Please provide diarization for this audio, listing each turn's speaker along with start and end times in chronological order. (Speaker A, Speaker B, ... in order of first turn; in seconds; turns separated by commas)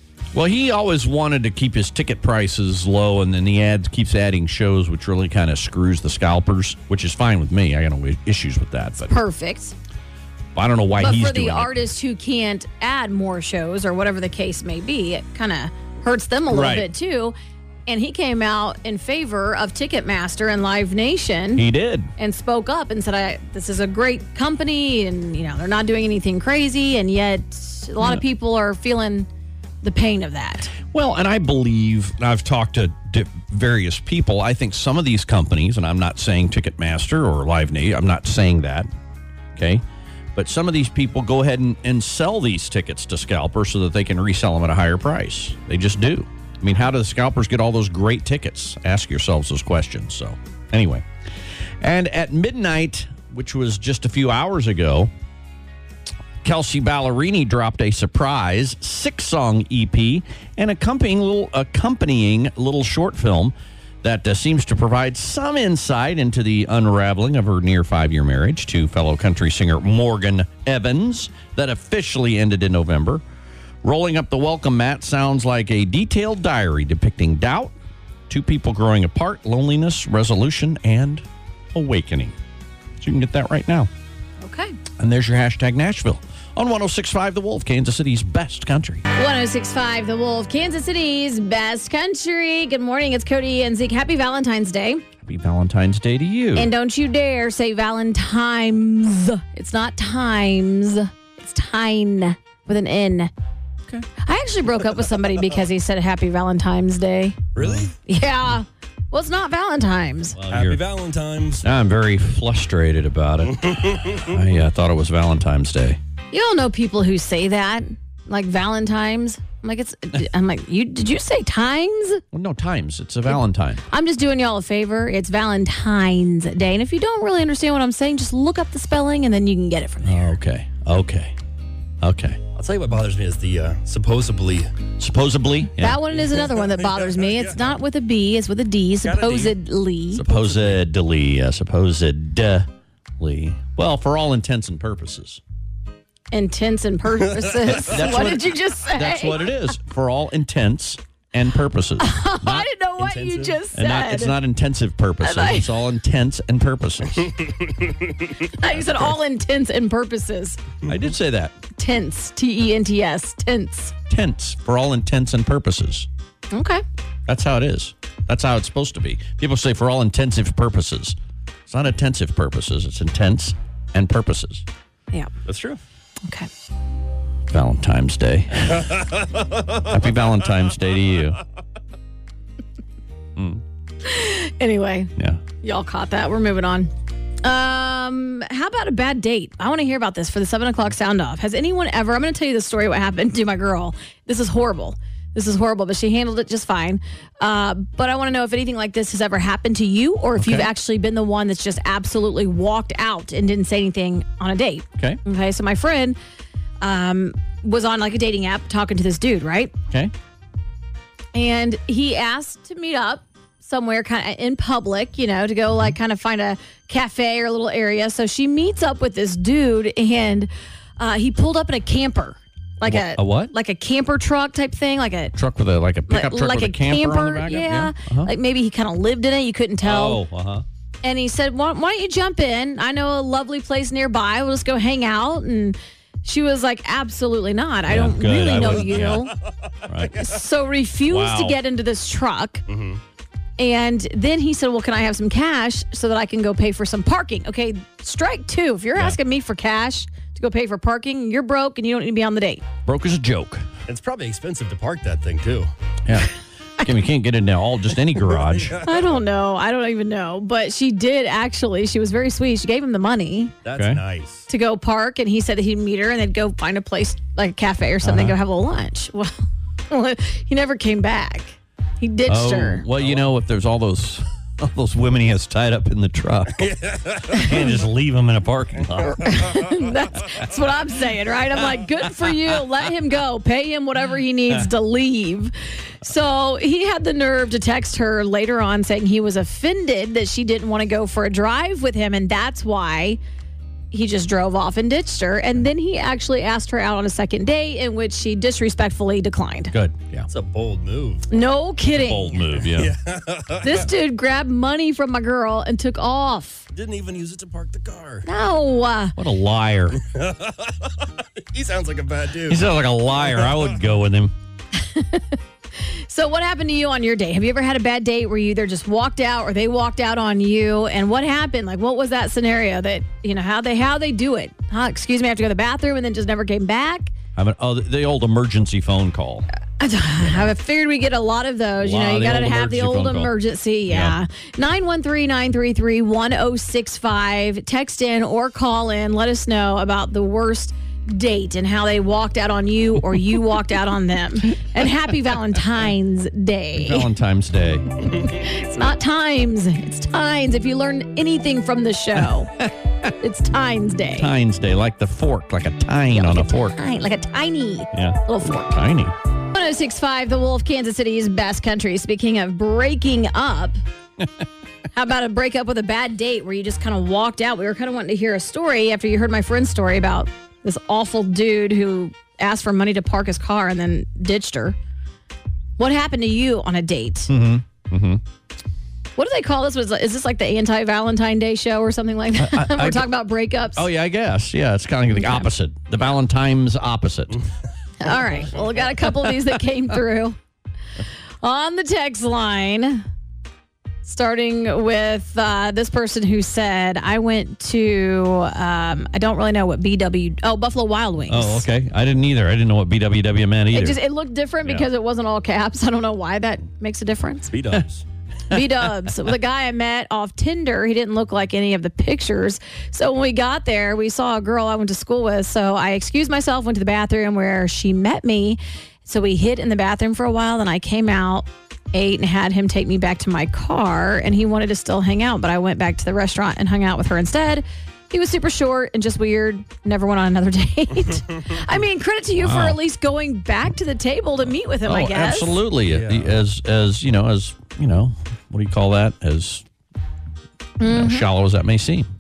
Speaker A: 0.3-9.2, Speaker B: 9.1-9.7, Speaker A: 10.6-11.7, Speaker B: 11.0-17.4, Speaker A: 16.5-16.9, Speaker B: 17.9-21.6, Speaker A: 21.6-22.1, Speaker B: 22.2-29.3, Speaker B: 29.8-30.7, Speaker A: 30.9-38.9, Speaker A: 39.5-39.8, Speaker A: 40.4-51.1, Speaker A: 51.8-55.1, Speaker A: 56.4-73.2, Speaker A: 73.8-77.7, Speaker A: 78.3-82.4, Speaker A: 83.0-83.9, Speaker B: 84.4-84.8, Speaker A: 85.0-89.0, Speaker B: 89.1-95.0, Speaker A: 95.2-96.7, Speaker B: 96.5-103.3, Speaker B: 104.2-107.4, Speaker C: 107.5-108.0, Speaker A: 107.6-107.9, Speaker B: 108.1-110.4, Speaker A: 110.3-110.8, Speaker C: 110.5-111.7, Speaker A: 111.6-116.0, Speaker C: 113.5-114.3, Speaker B: 116.3-122.2, Speaker A: 122.3-123.8, Speaker B: 123.9-130.3, Speaker A: 130.0-131.3, Speaker A: 132.0-132.4, Speaker C: 132.6-134.7, Speaker A: 135.0-136.0, Speaker B: 135.8-140.2, Speaker C: 136.1-137.7, Speaker C: 139.0-139.6, Speaker A: 140.1-145.4, Speaker C: 140.3-140.7, Speaker B: 146.3-149.5, Speaker C: 147.3-148.3, Speaker A: 147.7-152.7, Speaker B: 152.0-154.4, Speaker C: 153.0-153.6, Speaker A: 153.7-157.3, Speaker B: 155.2-155.7, Speaker C: 157.2-158.4, Speaker B: 158.6-160.6, Speaker A: 160.9-161.6, Speaker B: 161.8-163.9, Speaker A: 164.1-166.1, Speaker B: 166.5-166.8, Speaker A: 167.3-171.2, Speaker A: 171.7-174.7, Speaker C: 175.5-175.8, Speaker A: 177.5-178.9, Speaker A: 179.8-181.4, Speaker A: 183.4-183.6, Speaker B: 184.0-186.9, Speaker A: 185.2-185.4, Speaker B: 187.4-206.2, Speaker A: 200.4-200.7, Speaker B: 206.8-209.7, Speaker B: 211.3-225.4, Speaker A: 222.8-223.5, Speaker A: 225.3-228.3, Speaker B: 226.1-230.2, Speaker A: 229.8-230.7, Speaker B: 231.0-239.3, Speaker A: 237.9-239.3, Speaker A: 239.9-240.2, Speaker B: 240.2-242.6, Speaker A: 241.1-241.6, Speaker C: 242.7-243.0, Speaker B: 243.6-252.7, Speaker A: 252.8-253.7, Speaker C: 253.9-255.7, Speaker A: 256.1-258.8, Speaker C: 258.4-259.1, Speaker B: 258.8-263.5, Speaker C: 263.6-264.5, Speaker A: 263.8-264.0, Speaker B: 264.5-269.3, Speaker A: 268.0-268.4, Speaker B: 269.9-272.9, Speaker A: 272.3-276.7, Speaker C: 273.0-273.3, Speaker C: 276.6-277.7, Speaker A: 277.3-279.4, Speaker B: 279.2-293.2, Speaker B: 293.9-299.7, Speaker A: 299.7-300.3, Speaker C: 300.3-301.3, Speaker B: 301.3-302.4, Speaker A: 301.9-302.9, Speaker C: 302.6-303.9, Speaker B: 303.6-306.7, Speaker C: 306.7-308.3, Speaker B: 308.3-309.2, Speaker A: 309.2-310.0, Speaker C: 309.9-313.8, Speaker A: 312.5-314.3, Speaker B: 314.8-327.1, Speaker A: 327.4-329.5, Speaker B: 329.8-347.1, Speaker A: 330.2-330.5, Speaker A: 331.8-333.3, Speaker A: 333.9-334.2, Speaker A: 346.8-348.0, Speaker B: 348.2-352.5, Speaker B: 353.2-354.3, Speaker A: 354.2-356.9, Speaker B: 356.1-358.8, Speaker A: 357.9-359.1, Speaker B: 359.5-363.8, Speaker B: 364.9-374.8, Speaker B: 375.8-377.3, Speaker A: 377.3-378.2, Speaker B: 379.2-383.9, Speaker A: 382.4-383.1, Speaker A: 383.8-387.4, Speaker B: 385.2-385.5, Speaker B: 388.0-390.4, Speaker B: 391.4-393.1, Speaker B: 394.0-401.7, Speaker A: 401.3-404.0, Speaker B: 403.7-407.5, Speaker C: 407.5-408.0, Speaker B: 408.5-435.6, Speaker A: 432.4-432.8, Speaker A: 434.9-439.6, Speaker C: 435.9-436.4, Speaker B: 440.8-441.3, Speaker A: 440.8-442.1